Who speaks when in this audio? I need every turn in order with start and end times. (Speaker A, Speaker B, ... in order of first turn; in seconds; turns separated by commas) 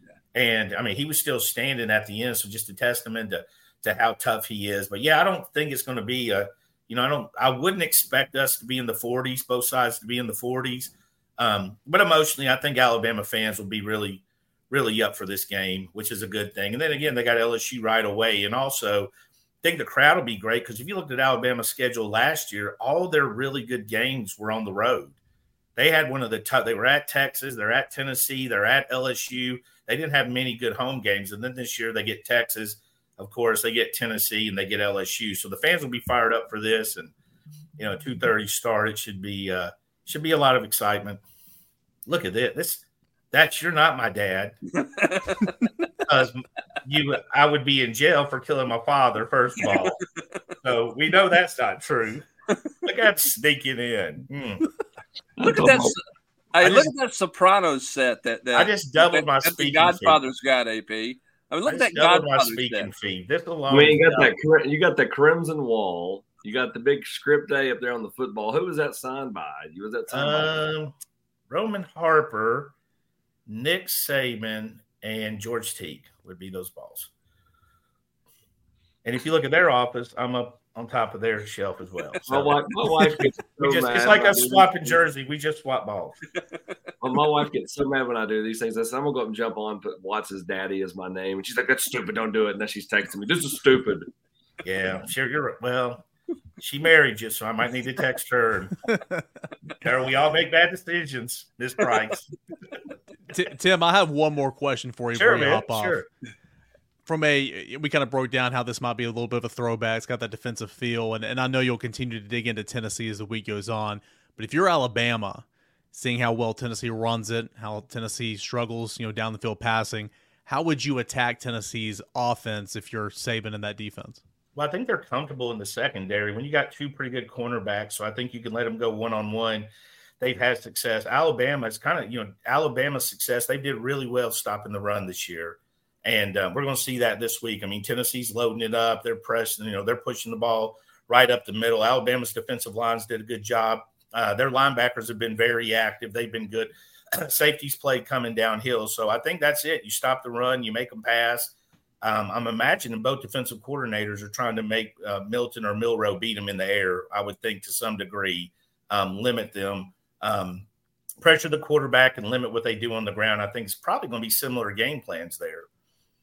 Speaker A: 0.3-19.1, Speaker A: 19.6-25.1, Speaker A: 25.8-37.1, Speaker A: 37.8-41.2, Speaker A: 42.0-44.5, Speaker B: 44.8-45.5, Speaker A: 46.0-50.0, Speaker A: 50.6-52.2, Speaker A: 52.8-54.7, Speaker C: 55.4-55.9, Speaker B: 55.4-56.0, Speaker B: 56.5-62.9, Speaker A: 56.6-56.9, Speaker A: 58.5-60.2, Speaker A: 61.7-64.3, Speaker C: 63.7-70.5, Speaker A: 70.1-70.9, Speaker A: 71.5-72.7, Speaker A: 73.5-77.1, Speaker A: 79.0-82.6, Speaker C: 82.3-85.0, Speaker A: 83.6-86.2, Speaker C: 87.0-94.1, Speaker A: 94.6-96.0, Speaker A: 96.6-98.8, Speaker A: 99.8-102.3, Speaker D: 103.3-106.0, Speaker A: 105.1-106.1, Speaker D: 107.0-124.2, Speaker A: 124.5-129.7, Speaker A: 130.2-160.7, Speaker A: 161.2-165.7